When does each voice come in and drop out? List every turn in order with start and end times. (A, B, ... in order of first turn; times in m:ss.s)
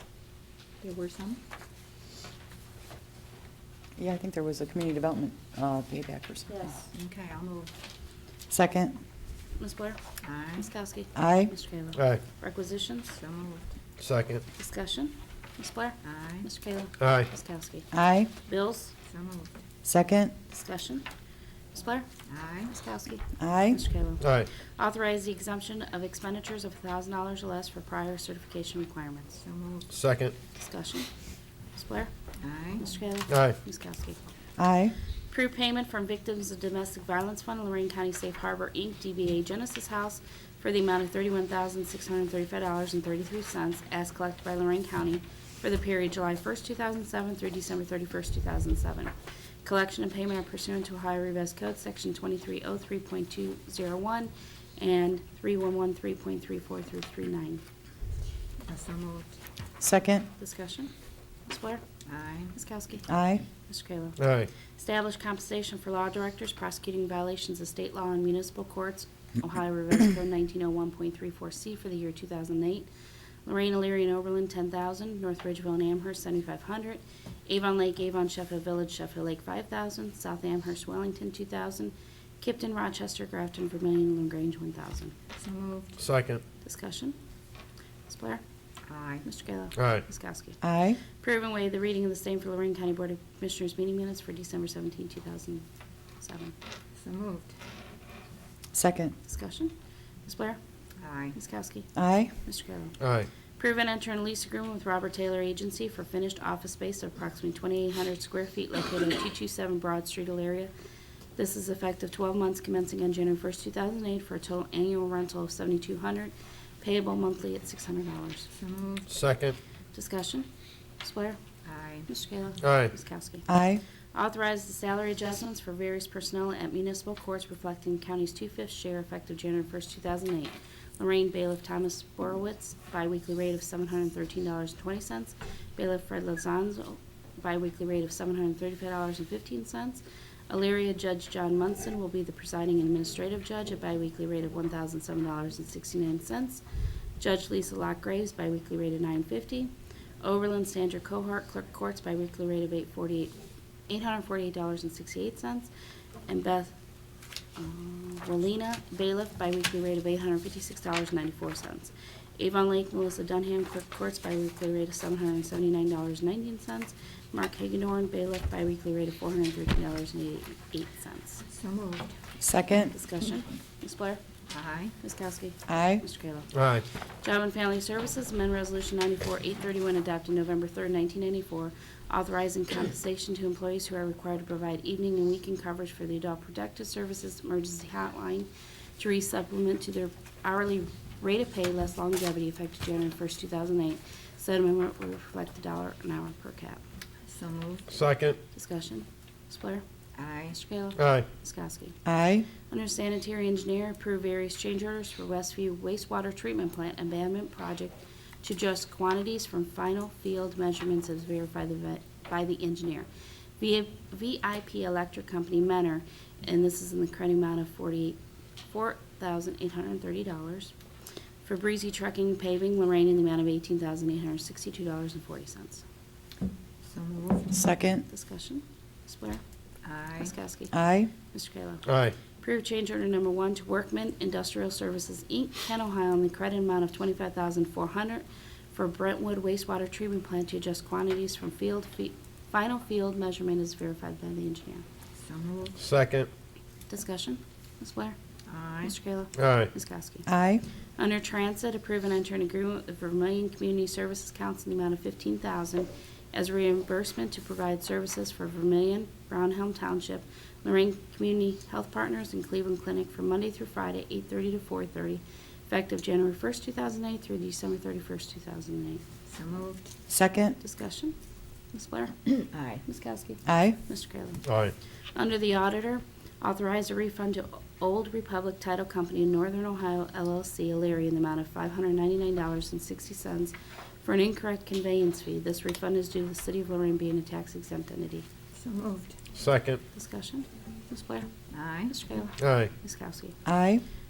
0:00.8-0:01.4 A
0:04.0-0:06.8 B
0:06.9-0:07.7 A
0:08.5-0:09.0 B
0:09.6-0:10.0 C
0:10.2-0:10.7 A
0:10.6-0:13.2 C
0:11.2-0:11.5 B
0:12.0-0:12.2 D
0:13.1-0:13.6 A
0:14.0-0:14.4 D
0:14.6-0:18.9 C
0:16.0-0:16.5 A
0:17.0-0:17.3 D
0:17.9-0:18.3 B
0:19.1-0:19.5 A
0:19.8-0:20.3 B
0:20.5-0:21.1 C
0:21.7-0:22.1 C
0:22.3-0:22.7 A
0:22.7-0:29.4 C
0:23.4-0:23.8 B
0:24.2-0:24.5 D
0:29.4-0:29.9 A
0:29.9-0:30.4 D
0:30.6-0:31.1 C
0:31.7-0:34.3 C
0:32.4-0:32.8 A
0:33.3-0:33.6 D
0:34.6-0:35.0 B
0:35.3-0:57.6 C
0:58.7-0:59.3 A
0:59.8-1:00.3 B
1:00.4-1:00.9 C
1:01.5-1:01.8 C
1:02.1-1:02.5 A
1:02.5-1:03.1 C
1:03.1-1:03.4 B
1:03.6-1:04.2 C
1:04.2-1:04.5 D
1:04.8-1:12.9 C
1:13.4-1:25.1 C
1:25.4-1:25.9 A
1:26.0-1:26.4 D
1:26.6-1:27.2 C
1:28.1-1:28.4 C
1:28.9-1:29.2 A
1:29.2-1:35.6 C
1:29.8-1:30.0 D
1:30.6-1:31.0 B
1:36.2-1:36.5 C
1:37.0-1:37.5 A
1:38.7-1:39.2 B
1:39.2-1:40.6 C
1:41.0-1:41.4 A
1:41.3-1:43.0 C
1:42.0-1:42.3 B
1:43.0-1:43.3 D
1:43.6-1:50.7 C
1:51.4-1:58.5 C
1:58.5-1:59.1 A
1:59.1-1:59.6 D
1:59.9-2:00.5 C
2:01.0-2:01.4 C
2:01.6-2:02.1 A
2:02.1-2:03.5 C
2:02.6-2:02.9 D
2:03.5-2:03.8 B
2:04.1-2:26.6 C
2:27.2-2:33.4 C
2:33.9-2:35.7 C
2:36.3-2:36.8 C
2:37.6-2:51.5 C
2:51.5-2:52.1 A
2:52.4-2:52.9 B
2:52.9-2:54.2 C
2:54.5-2:54.9 A
2:55.0-2:56.5 C
2:55.7-2:56.0 B
2:56.5-2:56.8 D
2:57.2-3:16.8 C
3:17.3-3:17.9 A
3:17.9-3:18.4 D
3:18.5-3:19.8 C
3:20.2-3:20.6 A
3:20.5-3:22.0 C
3:21.0-3:21.3 D
3:22.0-3:22.5 B
3:22.6-3:38.2 C
3:38.7-3:40.7 C
3:41.4-3:45.8 C
3:46.9-3:47.6 A
3:47.5-3:48.0 B
3:48.1-3:49.4 C
3:49.8-3:50.3 A
3:50.2-4:04.8 C
3:50.7-3:51.1 B
3:51.9-3:52.2 D
4:05.2-4:05.8 A
4:05.8-4:06.3 D
4:06.9-4:08.2 C
4:08.5-4:09.0 A
4:08.8-4:10.3 C
4:09.4-4:09.7 D
4:10.3-4:10.6 B
4:11.0-4:29.0 C
4:29.3-4:29.9 A
4:30.1-4:30.6 B
4:30.6-4:31.2 C
4:31.7-4:34.4 C
4:32.5-4:32.8 A
4:33.5-4:33.8 B
4:34.5-4:34.7 D
4:35.2-4:48.3 C
4:48.6-4:49.1 A
4:49.3-4:49.8 D
4:49.9-4:53.4 C
4:51.5-4:51.9 A
4:52.4-4:52.7 D
4:53.4-4:53.8 B